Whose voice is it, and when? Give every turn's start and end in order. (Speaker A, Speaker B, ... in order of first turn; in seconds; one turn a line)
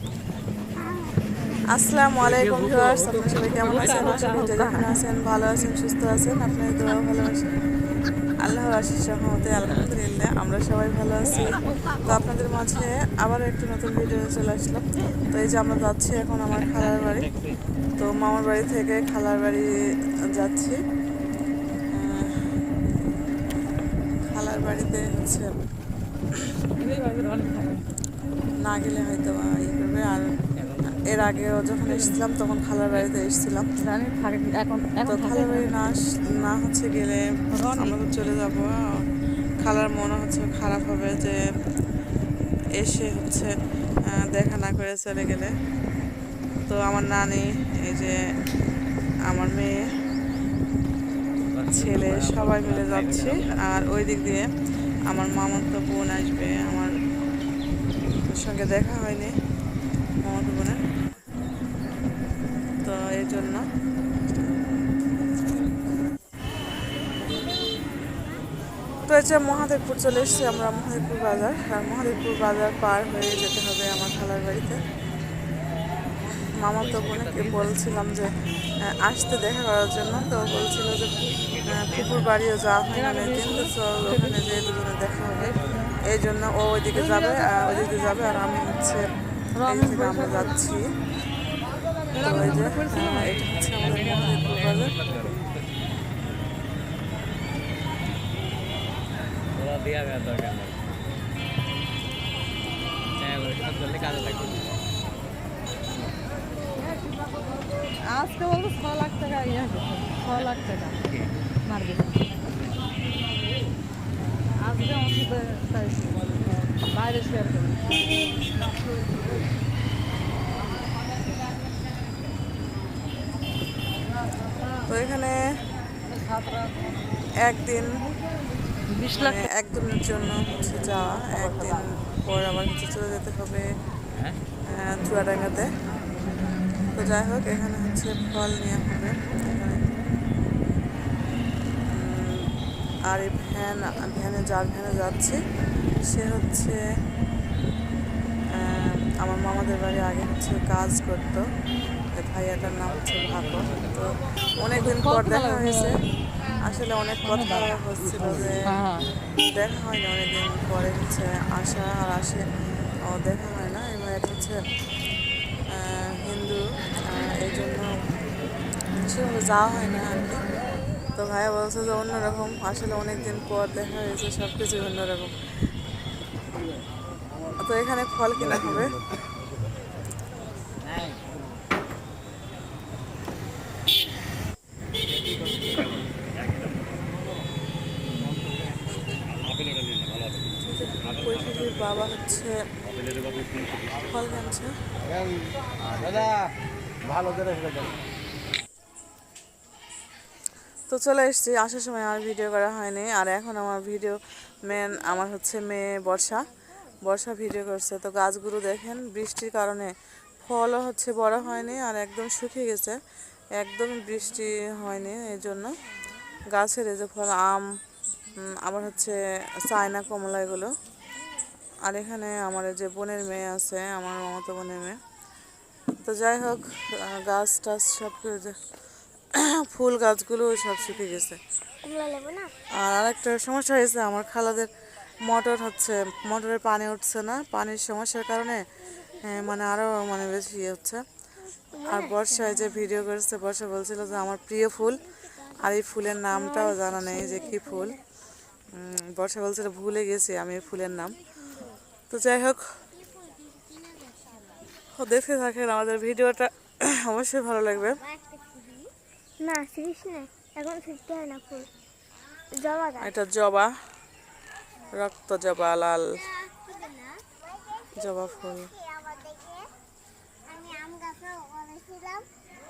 Speaker A: 1.7-7.6
Speaker B: 2.2-4.4
Speaker C: 4.3-4.8
Speaker A: 8.4-17.3
Speaker B: 16.8-17.6
Speaker A: 18.0-19.7
Speaker A: 20.4-20.8
Speaker A: 21.9-22.6
Speaker A: 24.2-25.5
Speaker C: 26.8-27.9
Speaker A: 28.6-30.3
Speaker B: 30.6-31.5
Speaker A: 31.0-33.7
Speaker C: 31.9-32.2
Speaker C: 33.8-35.9
Speaker A: 35.1-39.0
Speaker C: 37.5-38.0
Speaker A: 39.6-41.4
Speaker A: 42.8-43.5
Speaker A: 44.1-45.5
Speaker A: 46.7-48.2
Speaker A: 49.3-49.8
Speaker B: 51.5-53.9
Speaker A: 51.7-54.5
Speaker A: 55.1-56.9
Speaker A: 58.3-59.4
Speaker A: 60.2-60.8
Speaker A: 62.8-63.6
Speaker D: 67.2-68.3
Speaker A: 69.1-74.8
Speaker A: 76.6-89.1
Speaker B: 76.8-77.9
Speaker B: 81.2-82.3
Speaker C: 82.9-84.5
Speaker C: 85.4-86.0
Speaker C: 86.9-87.8
Speaker C: 89.5-90.8
Speaker A: 89.7-90.9
Speaker C: 92.1-93.3
Speaker A: 92.2-95.0
Speaker B: 93.4-95.4
Speaker B: 99.5-100.8
Speaker B: 103.2-104.7
Speaker C: 108.0-111.0
Speaker C: 111.6-112.2
Speaker C: 114.6-116.2
Speaker C: 116.9-117.7
Speaker A: 124.9-125.4
Speaker A: 127.4-127.9
Speaker C: 128.9-129.4
Speaker A: 129.1-133.7
Speaker B: 134.1-134.4
Speaker A: 134.7-135.7
Speaker A: 136.9-139.8
Speaker A: 141.9-142.5
Speaker A: 143.1-145.4
Speaker A: 146.0-146.8
Speaker A: 148.5-151.4
Speaker A: 152.1-155.9
Speaker B: 152.6-154.0
Speaker C: 154.6-156.0
Speaker A: 156.6-158.7
Speaker C: 157.3-157.7
Speaker C: 158.6-159.1
Speaker A: 159.4-162.4
Speaker A: 163.0-164.6
Speaker A: 165.7-167.9
Speaker A: 169.0-170.4
Speaker A: 171.2-175.3
Speaker A: 177.6-179.0
Speaker A: 190.6-192.6
Speaker A: 193.8-194.7
Speaker A: 200.9-206.5
Speaker A: 207.0-209.9
Speaker A: 210.4-213.0
Speaker A: 213.6-215.8
Speaker A: 216.5-217.6
Speaker A: 218.4-220.7
Speaker A: 221.8-225.0
Speaker A: 226.0-228.6
Speaker A: 229.3-231.4
Speaker D: 231.8-232.5
Speaker A: 232.8-234.7
Speaker A: 235.2-241.0
Speaker D: 241.6-242.6
Speaker A: 241.9-248.0
Speaker D: 246.3-248.0
Speaker A: 248.7-251.2
Speaker D: 251.3-251.8
Speaker A: 252.1-252.6
Speaker D: 252.9-254.6
Speaker A: 254.9-258.0
Speaker D: 257.9-261.7
Speaker D: 262.6-263.1
Speaker A: 263.0-263.7
Speaker A: 264.9-266.2
Speaker D: 266.3-269.7
Speaker A: 268.0-268.7
Speaker D: 270.5-272.3